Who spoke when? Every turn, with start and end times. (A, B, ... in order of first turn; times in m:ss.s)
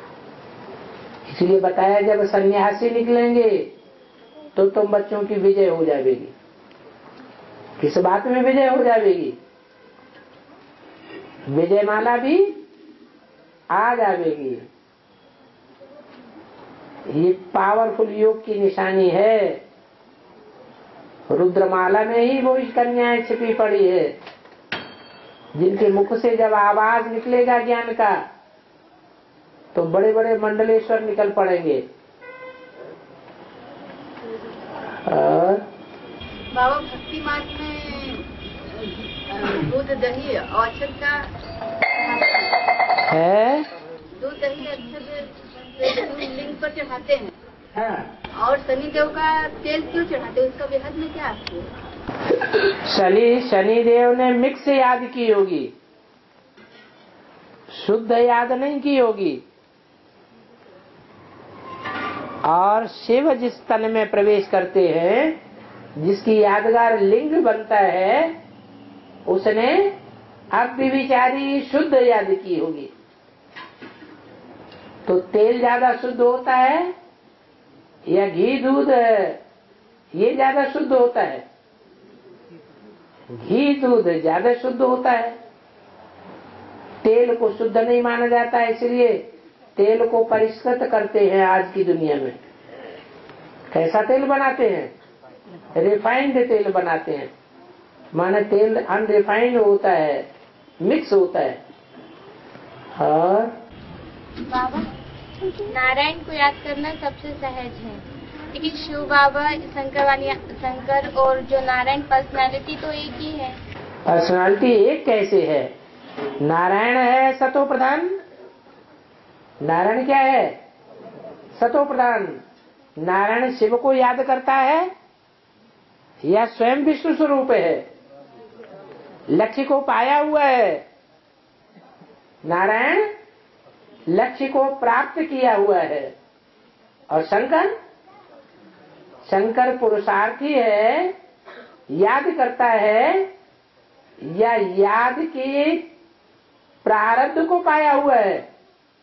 0:01.3-0:03.7 A
0:04.6-0:06.3 A
0:07.8-0:09.4 A
0:11.5-0:12.5 A
0:13.7-0:14.7 A
0:17.1-0:19.6 A
0:21.3-0:24.1 A
0:25.5-0:28.2 A
0:29.7-0:31.8 A
0:35.0-0:35.6 A
0:36.5-0:38.2 B
0:39.3-0:41.3 B
0:42.0-0:42.5 B
0:43.1-0:43.6 A
0:44.2-0:45.2 B
0:45.8-0:47.3 B
0:47.7-0:48.1 A
0:48.4-0:51.7 B
0:52.8-0:55.7 A
0:57.7-0:59.4 A
1:02.4-1:05.4 A
1:06.0-1:08.4 A
1:09.2-1:09.9 A
1:10.5-1:12.9 A
1:15.0-1:16.9 A
1:18.1-1:19.4 A
1:20.1-1:21.4 A
1:23.3-1:25.4 A
1:27.0-1:29.2 A
1:29.8-1:32.4 A
1:33.7-1:34.9 A
1:35.7-1:37.3 A
1:38.1-1:40.2 A
1:40.8-1:41.6 A
1:43.0-1:43.5 A
1:44.4-1:44.9 C
1:45.7-1:48.0 C
1:48.5-1:53.6 C
1:54.1-1:55.7 A
1:56.4-1:58.2 A
1:59.6-2:00.6 A
2:01.6-2:02.4 A
2:03.0-2:04.9 A
2:06.2-2:07.8 A
2:09.3-2:10.8 A
2:12.4-2:13.1 A
2:14.1-2:16.1 A
2:17.1-2:17.7 A
2:19.2-2:21.1 A
2:21.9-2:23.3 A
2:24.2-2:25.8 A
2:26.8-2:28.4 A